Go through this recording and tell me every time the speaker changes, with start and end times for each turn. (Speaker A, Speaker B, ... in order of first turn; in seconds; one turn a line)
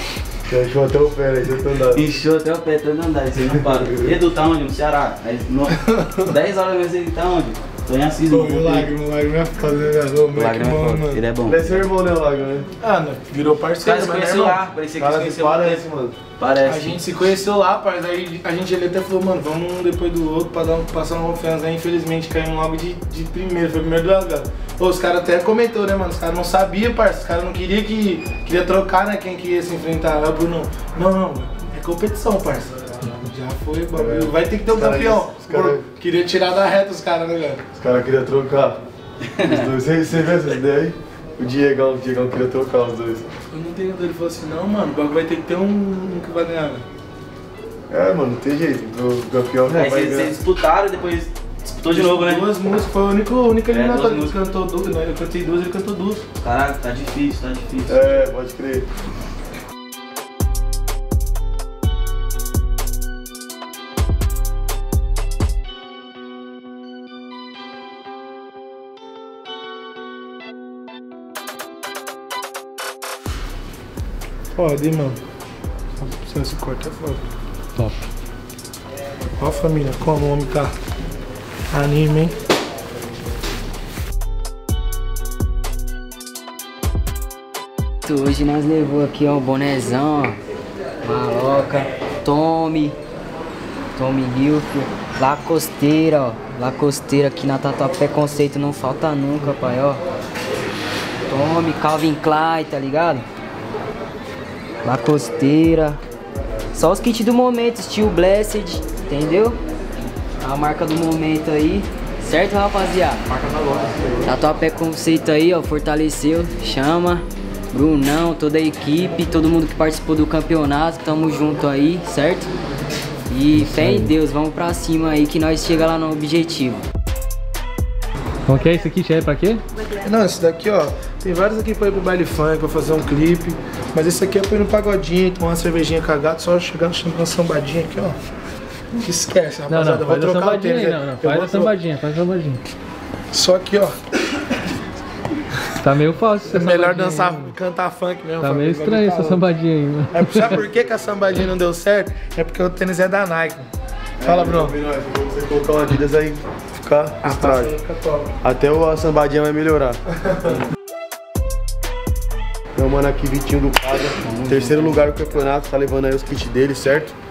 Speaker A: 0.5-2.1
Speaker B: 1.9-8.9
Speaker A: 3.7-4.1
Speaker C: 5.9-6.2
Speaker C: 8.3-11.2
Speaker B: 10.3-11.9
Speaker A: 11.4-12.7
Speaker C: 12.8-14.6
Speaker B: 13.8-15.8
Speaker A: 15.0-16.2
Speaker B: 16.4-17.0
Speaker C: 16.6-37.6
Speaker A: 33.9-35.9
Speaker A: 37.8-38.8
Speaker A: 39.4-43.3
Speaker C: 43.5-46.9
Speaker A: 47.9-50.3
Speaker B: 49.7-52.5
Speaker C: 51.9-56.2
Speaker B: 53.7-54.4
Speaker B: 56.4-58.1
Speaker A: 57.9-58.9
Speaker C: 74.5-75.2
Speaker C: 76.0-77.3
Speaker D: 77.8-78.0
Speaker C: 79.4-80.7
Speaker C: 81.7-82.3
Speaker E: 88.1-90.4
Speaker E: 91.0-93.0
Speaker E: 94.0-100.0
Speaker E: 101.3-103.3
Speaker E: 104.8-106.0
Speaker E: 106.7-109.6
Speaker E: 110.4-113.3
Speaker A: 113.4-114.3
Speaker E: 114.2-122.5
Speaker E: 123.3-126.8
Speaker D: 123.6-124.1
Speaker D: 128.5-129.6
Speaker C: 130.0-138.2
Speaker C: 139.0-141.7
Speaker D: 139.7-142.6
Speaker C: 143.3-144.1
Speaker D: 145.8-147.6
Speaker C: 146.5-149.5
Speaker D: 148.4-150.6
Speaker C: 150.1-153.7
Speaker C: 154.2-154.8
Speaker A: 154.2-157.8
Speaker C: 157.2-158.3
Speaker A: 158.4-160.0
Speaker C: 160.3-160.5
Speaker A: 162.8-167.2
Speaker B: 164.2-165.3